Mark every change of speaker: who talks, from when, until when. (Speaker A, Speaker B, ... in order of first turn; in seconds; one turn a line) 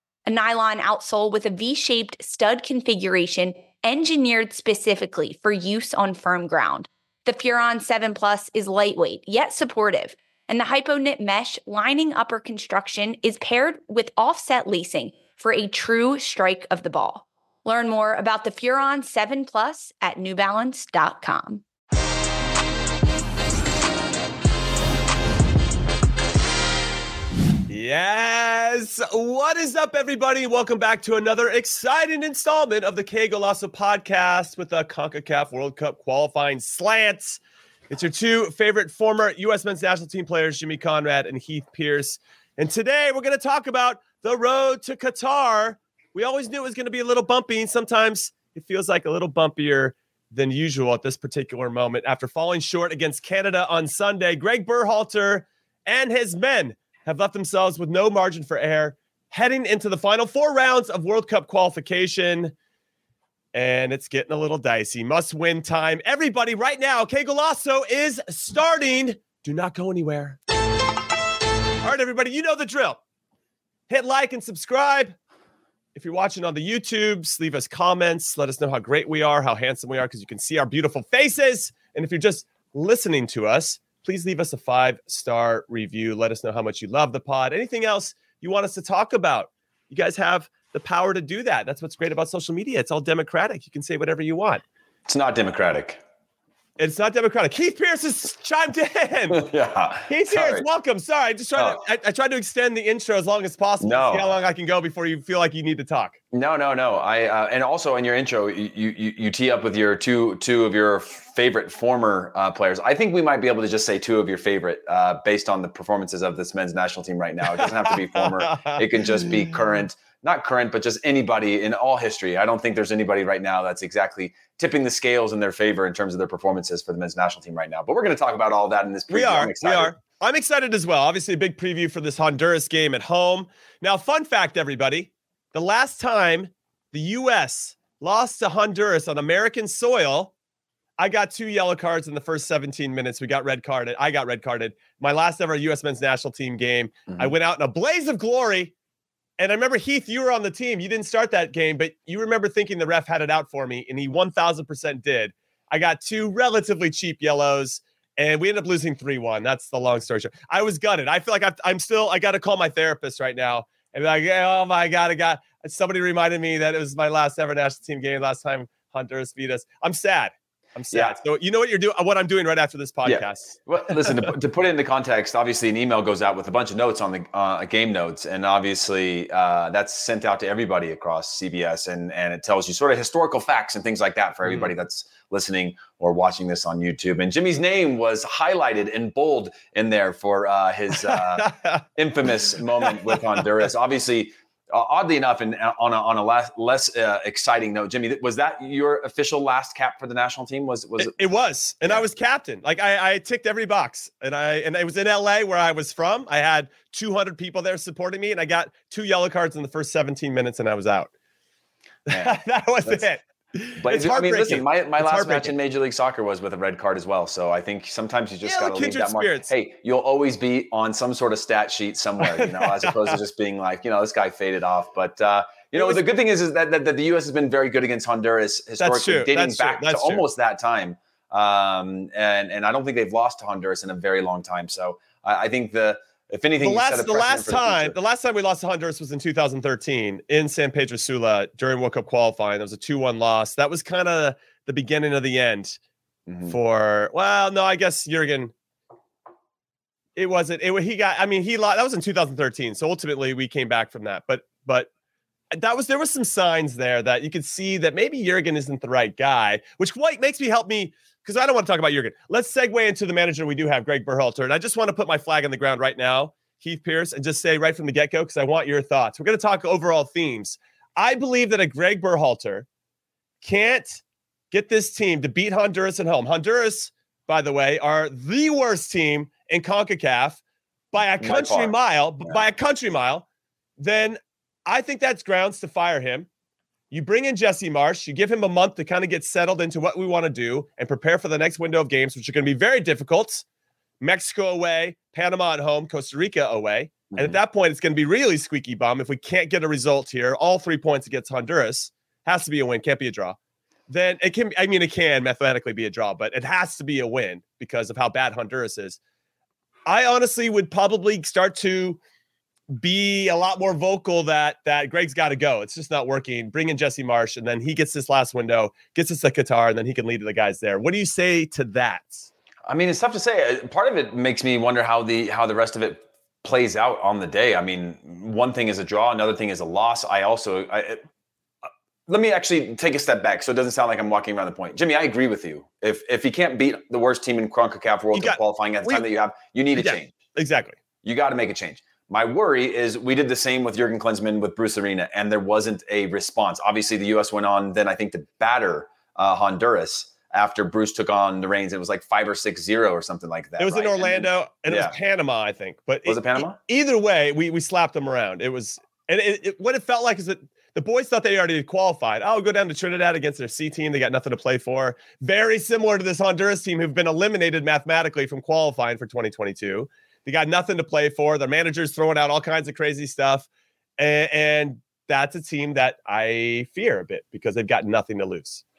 Speaker A: 0.3-21.6
Speaker B: 27.7-37.4
Speaker B: 37.9-62.5
Speaker B: 63.5-70.4
Speaker B: 71.8-73.0
Speaker B: 73.9-75.2
Speaker B: 76.0-94.6
Speaker C: 95.1-96.0
Speaker B: 96.8-99.5
Speaker C: 99.3-100.7
Speaker B: 100.1-106.2
Speaker C: 103.8-104.3
Speaker C: 106.3-129.9
Speaker B: 117.5-119.5
Speaker B: 129.1-140.3
Speaker B: 141.0-148.7
Speaker C: 147.1-147.3
Speaker B: 149.4-174.3
Speaker C: 170.9-171.2
Speaker C: 173.0-201.2
Speaker B: 191.0-191.8
Speaker B: 192.8-193.5
Speaker B: 201.0-211.1
Speaker B: 212.1-215.5
Speaker C: 212.1-213.1
Speaker C: 213.8-238.0
Speaker B: 218.4-219.5
Speaker B: 222.2-223.2
Speaker B: 225.8-226.0
Speaker B: 228.8-230.2
Speaker B: 236.6-245.8
Speaker C: 246.3-246.6
Speaker B: 246.5-248.5
Speaker B: 250.2-254.9
Speaker B: 255.5-272.7
Speaker B: 273.4-280.4
Speaker B: 280.9-283.2
Speaker C: 281.2-282.4
Speaker B: 283.8-286.3
Speaker B: 286.9-293.4
Speaker B: 294.0-303.4
Speaker C: 297.1-297.4
Speaker B: 303.9-309.0
Speaker B: 309.9-312.0
Speaker B: 312.7-322.3
Speaker C: 322.7-331.1
Speaker C: 331.6-340.1
Speaker B: 338.1-339.1
Speaker B: 339.8-340.8
Speaker C: 341.0-354.9
Speaker B: 353.6-373.5
Speaker C: 356.1-356.6
Speaker B: 374.0-378.6